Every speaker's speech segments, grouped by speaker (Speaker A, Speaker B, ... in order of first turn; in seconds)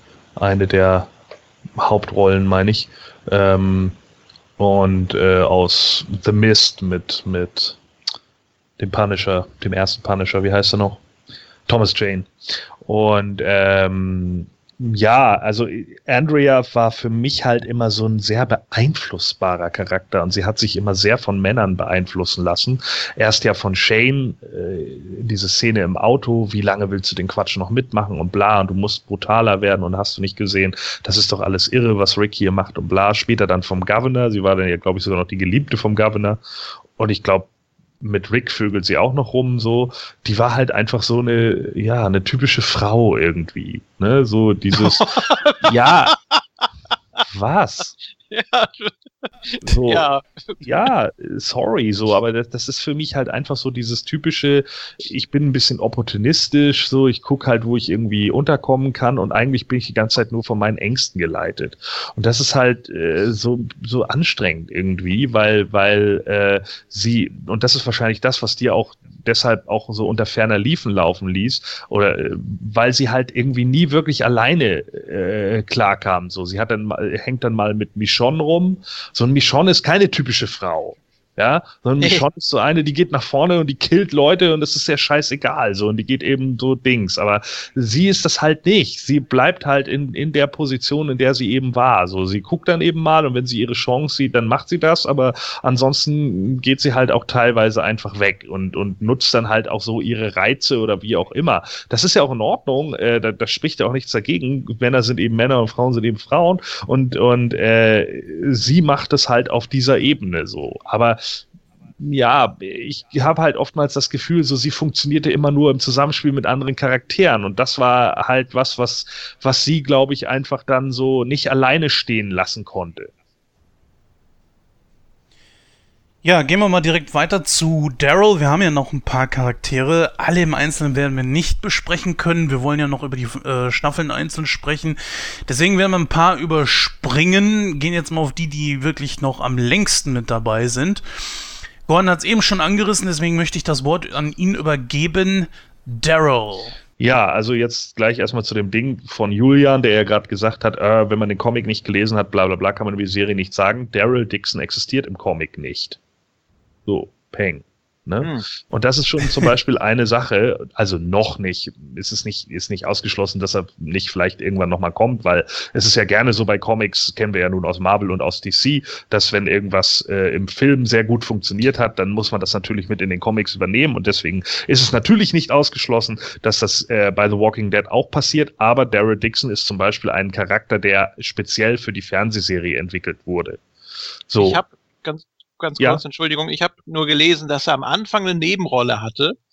Speaker A: 0.4-1.1, 1.8-3.9, 4.6-7.8, 8.8-11.0, 11.7-12.3, 12.8-36.4, 37.0-37.5, 38.0-46.1, 47.3-47.9, 49.6-50.1, 50.6-111.2, 112.0-123.1, 147.0-156.0, 156.9-183.6, 184.3-184.6
Speaker B: 44.8-46.4, 48.3-50.7, 82.0-82.3, 158.2-158.4, 184.4-189.3
Speaker C: 126.2-146.8